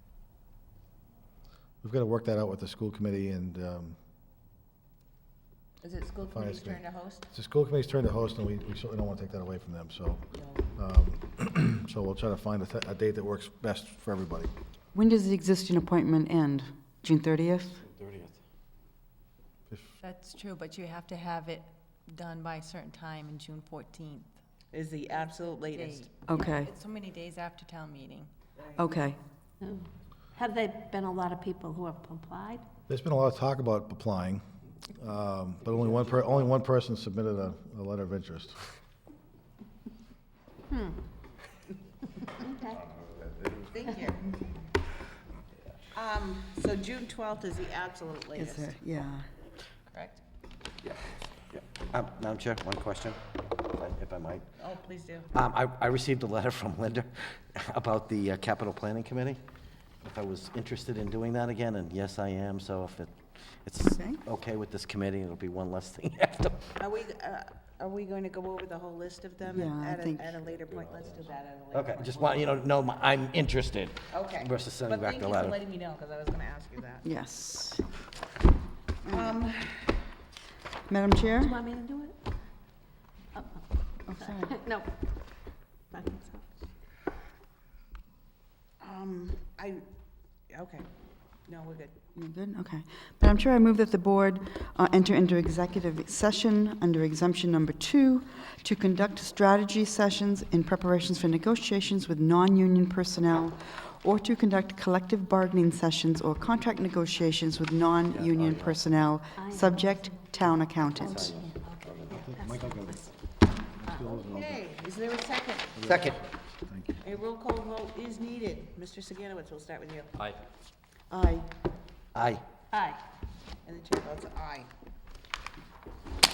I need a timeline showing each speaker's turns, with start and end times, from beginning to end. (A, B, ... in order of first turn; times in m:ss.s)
0:01.8-0:04.0 A
0:05.8-0:07.3 B
0:06.3-0:10.2 A
0:10.3-0:10.7 B
0:10.8-0:14.5 A
0:14.9-0:17.8 C
0:17.8-0:18.4 D
0:19.7-0:20.0 A
0:20.0-0:24.4 E
0:24.7-0:26.1 B
0:25.6-0:28.3 E
0:26.3-0:26.7 C
0:28.8-0:29.2 C
0:29.6-0:32.6 F
0:32.9-0:34.4 A
0:35.0-0:38.7 A
0:35.6-0:36.5 D
0:43.7-0:44.4 B
0:45.9-0:48.8 B
0:48.4-0:49.3 C
0:51.5-0:54.5 D
0:54.6-0:55.3 B
0:55.3-0:59.4 D
1:00.0-1:06.7 D
1:03.8-1:04.2 C
1:06.8-1:12.6 B
1:09.5-1:10.4 C
1:11.7-1:15.6 D
1:14.1-1:17.1 B
1:17.0-1:17.9 C
1:19.1-1:19.4 C
1:19.1-1:20.0 B
1:20.9-1:21.6 C
1:21.4-1:22.2 F
1:23.4-1:24.9 F
1:24.1-1:24.6 C
1:25.9-1:26.5 F
1:28.8-1:29.9 B
1:30.5-1:30.9 B
1:31.5-1:32.0 B
1:32.2-1:51.5 C
1:48.1-1:48.8 D
1:49.4-1:53.1 F
1:51.0-1:52.2 D
1:52.1-1:53.1 A
1:53.8-1:54.7 A
1:53.9-1:54.2 F
1:54.2-1:55.9 B
1:55.8-1:57.1 A
1:55.8-1:56.2 D
1:57.0-2:00.2 B
2:01.1-2:01.5 C
2:02.1-2:02.4 D
2:02.7-2:03.0 F
2:03.6-2:04.7 B